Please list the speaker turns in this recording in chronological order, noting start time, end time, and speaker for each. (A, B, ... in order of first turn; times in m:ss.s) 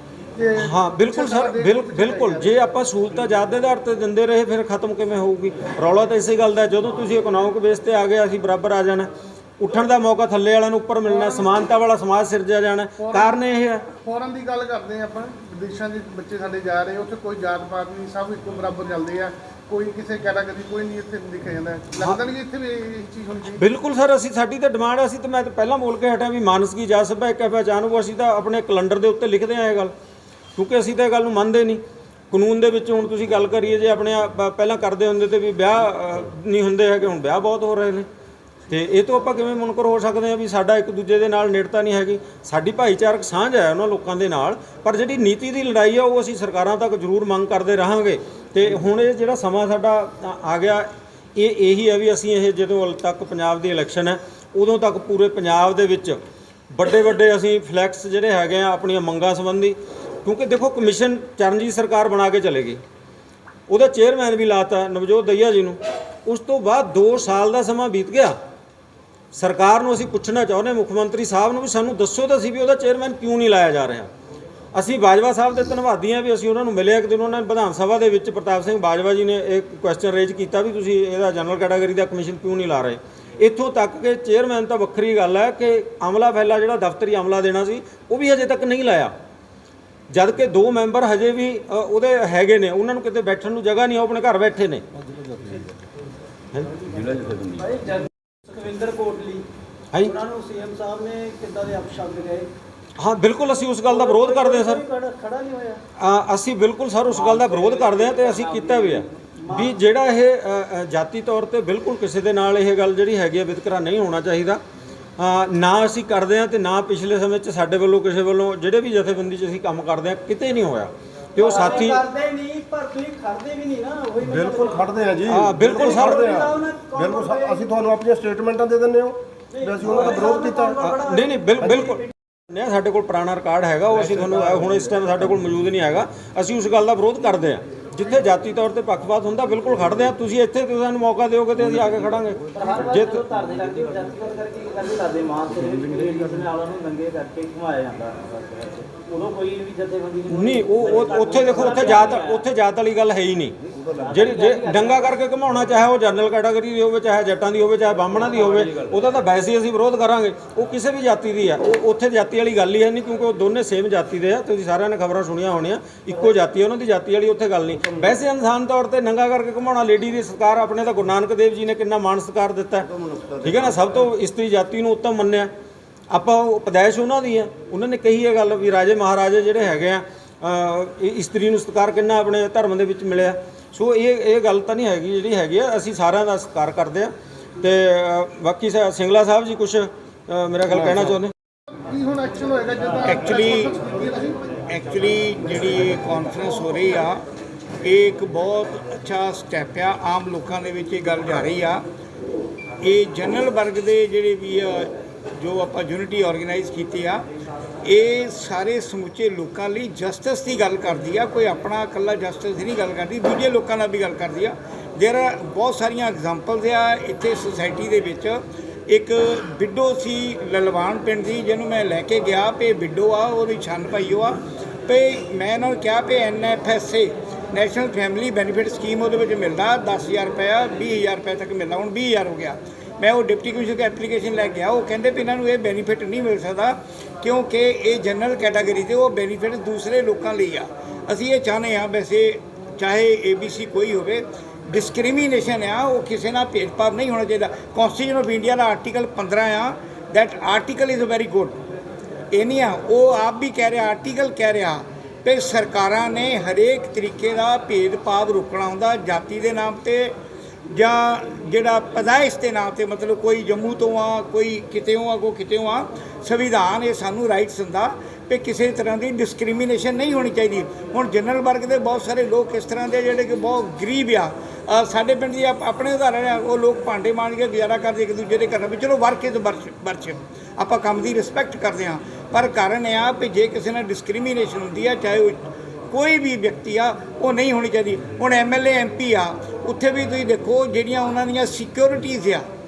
0:00.3-0:02.5 A
0:00.6-0:13.9 B
0:11.1-0:11.6 A
0:13.0-0:23.6 A
0:23.6-0:29.9 B
0:30.6-0:38.1 B
0:38.7-0:56.2 B
0:56.7-1:02.8 B
1:03.7-1:08.3 B
1:09.3-1:14.1 B
1:14.7-1:29.1 B
1:30.1-1:34.8 B
1:37.3-1:39.4 C
1:40.0-1:42.5 C
1:43.0-1:44.8 B
1:43.8-1:45.8 C
1:46.0-1:54.6 B
1:47.1-1:49.8 C
1:55.2-2:02.0 B
2:01.4-2:04.9 C
2:04.2-2:10.8 D
2:05.3-2:06.2 B
2:05.5-2:07.7 C
2:09.5-2:12.1 C
2:10.8-2:23.2 B
2:22.5-2:32.4 C
2:30.3-2:52.9 B
2:33.9-2:35.2 C
2:53.4-2:55.5 B
2:56.1-3:11.3 B
3:10.7-3:11.1 D
3:11.7-3:14.5 A
3:13.0-3:13.7 E
3:14.7-3:17.2 E
3:17.8-3:21.8 E
3:22.8-3:27.2 E
3:27.8-3:38.4 E
3:38.9-4:11.6 E
4:12.3-4:20.1 E
4:20.7-4:45.4 E
4:45.9-4:52.4 E